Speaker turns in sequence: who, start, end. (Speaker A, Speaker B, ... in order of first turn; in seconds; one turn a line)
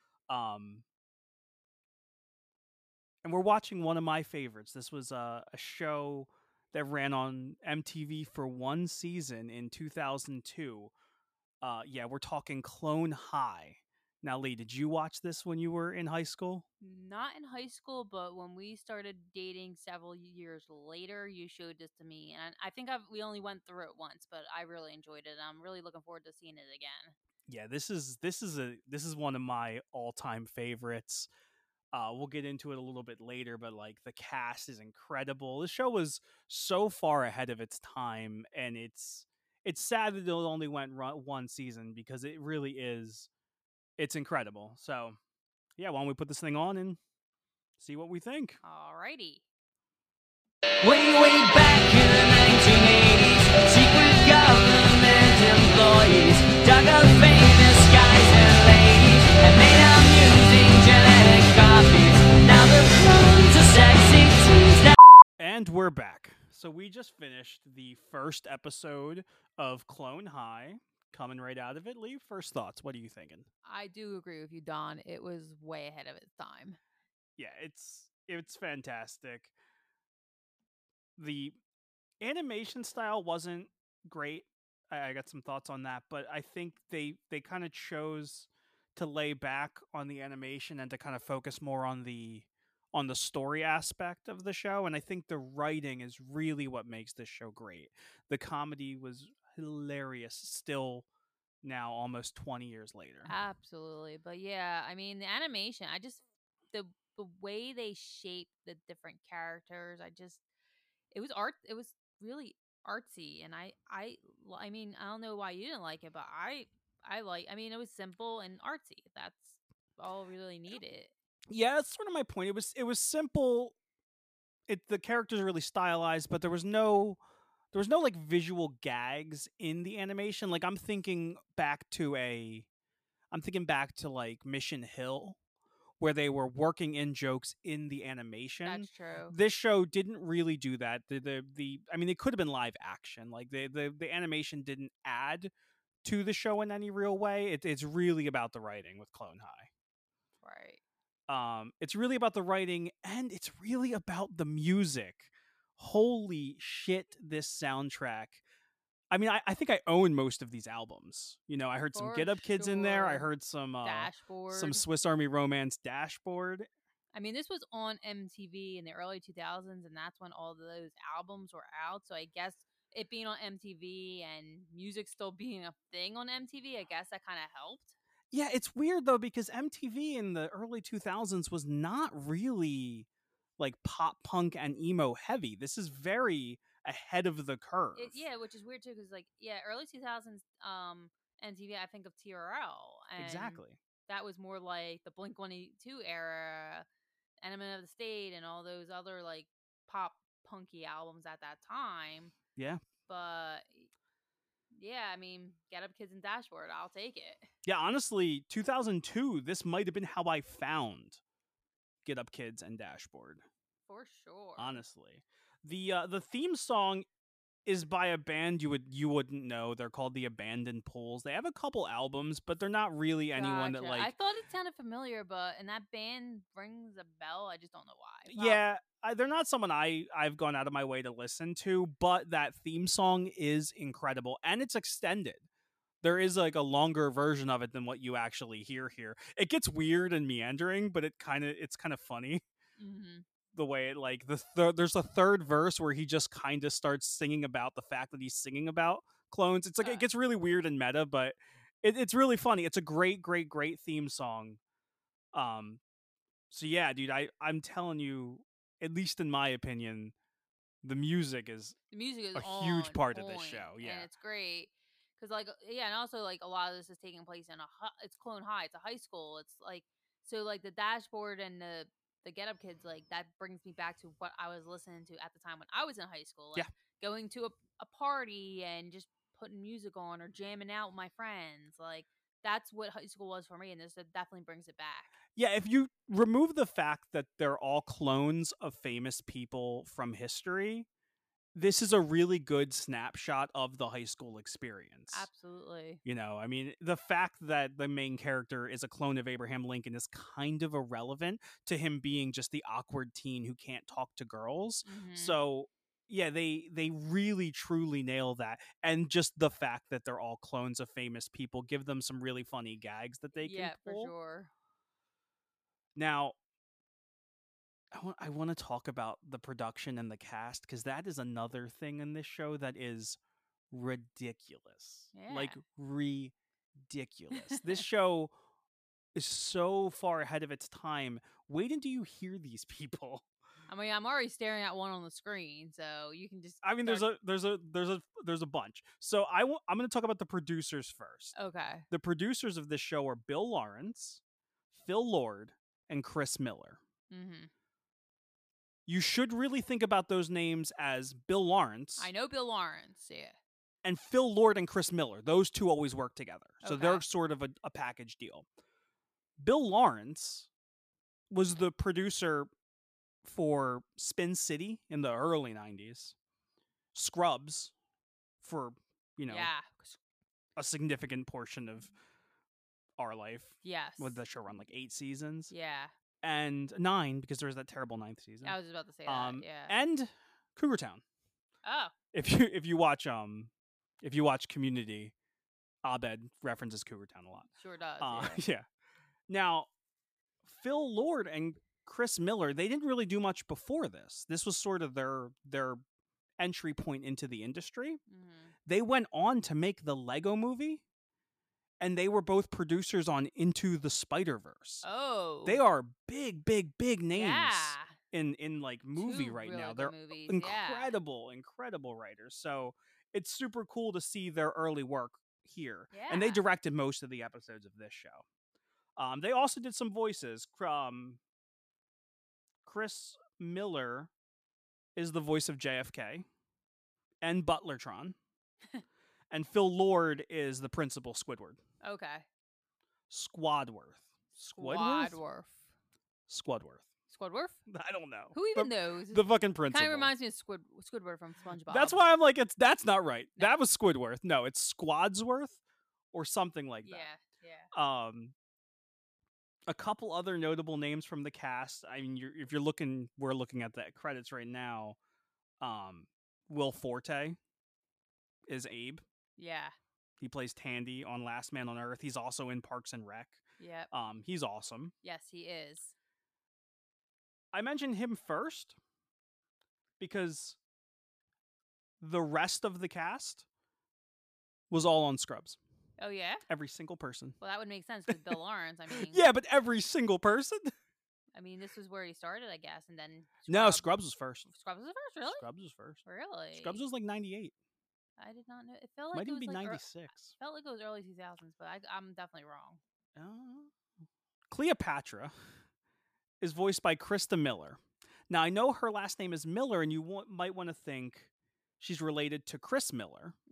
Speaker A: 0.3-0.8
Speaker A: 3.2-10.9
Speaker A: 11.6-16.6
Speaker B: 16.8-27.1
Speaker A: 27.5-31.3
Speaker A: 31.9-43.3
Speaker A: 44.0-45.2
Speaker A: 45.8-47.0
Speaker A: 47.8-48.6
Speaker B: 48.6-49.4
Speaker C: 50.8-65.0
Speaker A: 65.4-73.5
Speaker B: 73.6-76.8
Speaker A: 77.4-79.5
Speaker A: 81.2-81.6
Speaker A: 82.2-101.0
Speaker A: 101.6-103.3
Speaker B: 103.3-110.4
Speaker B: 111.1-121.1
Speaker A: 121.5-123.7
Speaker A: 124.7-127.2
Speaker A: 127.7-132.7
Speaker A: 133.3-135.4
Speaker A: 136.0-145.5
Speaker B: 138.6-139.3
Speaker A: 146.0-149.7
Speaker B: 150.4-150.8
Speaker A: 151.3-158.4
Speaker A: 159.1-166.7
Speaker B: 161.9-163.3
Speaker B: 163.8-164.8
Speaker B: 167.1-177.9
Speaker A: 178.3-183.1
Speaker A: 183.6-188.2
Speaker B: 187.9-196.8
Speaker A: 193.2-193.8
Speaker B: 197.4-202.3
Speaker A: 202.6-202.8
Speaker B: 203.1-203.9
Speaker B: 204.7-207.5
Speaker A: 207.6-211.2
Speaker A: 212.0-213.4
Speaker B: 213.9-214.8
Speaker A: 214.6-217.1
Speaker A: 217.7-224.1
Speaker B: 223.3-228.6
Speaker A: 228.3-235.4
Speaker A: 236.0-242.4
Speaker B: 242.8-243.2
Speaker A: 243.5-254.6
Speaker A: 255.3-255.8
Speaker A: 256.5-260.1
Speaker A: 260.8-261.8
Speaker B: 261.9-285.1
Speaker A: 262.3-264.1
Speaker A: 285.3-290.9
Speaker A: 291.5-295.3
Speaker B: 295.1-296.0
Speaker A: 296.0-314.1
Speaker B: 304.8-305.4
Speaker B: 313.4-314.5
Speaker A: 315.9-316.4
Speaker A: 317.9-323.2
Speaker A: 323.7-326.3
Speaker B: 325.1-325.6
Speaker A: 326.9-328.3
Speaker B: 327.5-327.8
Speaker A: 329.1-333.2
Speaker B: 333.7-337.1
Speaker A: 336.6-341.3
Speaker B: 341.3-341.9
Speaker A: 341.9-344.2
Speaker A: 344.7-346.8
Speaker B: 347.1-347.5
Speaker A: 348.9-352.1
Speaker B: 352.0-353.4
Speaker A: 353.8-358.4
Speaker B: 356.6-357.0
Speaker A: 359.4-360.5
Speaker A: 361.3-362.5
Speaker A: 363.2-366.1
Speaker A: 366.9-367.7
Speaker A: 368.4-369.5
Speaker B: 369.3-370.0
Speaker A: 370.6-371.9
Speaker A: 373.0-375.5
Speaker B: 373.6-374.2
Speaker B: 375.5-375.9
Speaker A: 376.2-381.0
Speaker B: 378.4-379.7
Speaker B: 381.6-381.9
Speaker A: 382.1-385.1
Speaker A: 385.8-387.5
Speaker B: 387.6-388.4
Speaker A: 388.0-388.6
Speaker A: 389.3-389.7
Speaker A: 390.4-395.8
Speaker A: 396.4-398.0
Speaker B: 398.1-398.5
Speaker A: 398.6-400.8
Speaker A: 401.8-404.9
Speaker B: 404.8-405.6
Speaker A: 405.4-418.2
Speaker B: 407.1-407.9
Speaker B: 408.9-410.9
Speaker B: 415.9-416.4
Speaker A: 419.0-421.2
Speaker A: 422.6-424.1
Speaker A: 424.9-426.3
Speaker A: 427.2-428.1
Speaker A: 429.3-431.6
Speaker B: 431.8-432.2
Speaker A: 433.1-435.2
Speaker B: 434.5-435.6
Speaker A: 436.3-436.9
Speaker B: 437.1-437.6
Speaker A: 437.7-440.1
Speaker B: 438.3-442.0
Speaker A: 441.7-445.6
Speaker A: 446.1-447.1
Speaker B: 446.9-447.7
Speaker A: 447.7-448.3
Speaker A: 449.7-455.0
Speaker A: 455.6-457.4
Speaker A: 458.5-459.0
Speaker B: 459.4-459.7
Speaker A: 460.2-464.9
Speaker B: 463.6-463.9
Speaker B: 465.0-465.9
Speaker A: 467.5-468.8
Speaker A: 470.0-470.6
Speaker A: 472.0-473.4
Speaker A: 474.7-475.6
Speaker B: 476.0-476.4
Speaker A: 476.5-477.4
Speaker B: 477.4-479.2
Speaker A: 478.1-478.3
Speaker A: 478.9-480.7
Speaker B: 481.3-483.9
Speaker A: 483.5-484.5
Speaker B: 484.4-485.4
Speaker A: 485.2-487.5
Speaker B: 486.0-486.8
Speaker B: 488.2-492.8
Speaker A: 489.1-490.3
Speaker A: 493.1-493.7
Speaker A: 494.5-495.3
Speaker A: 496.4-501.3
Speaker A: 501.8-503.4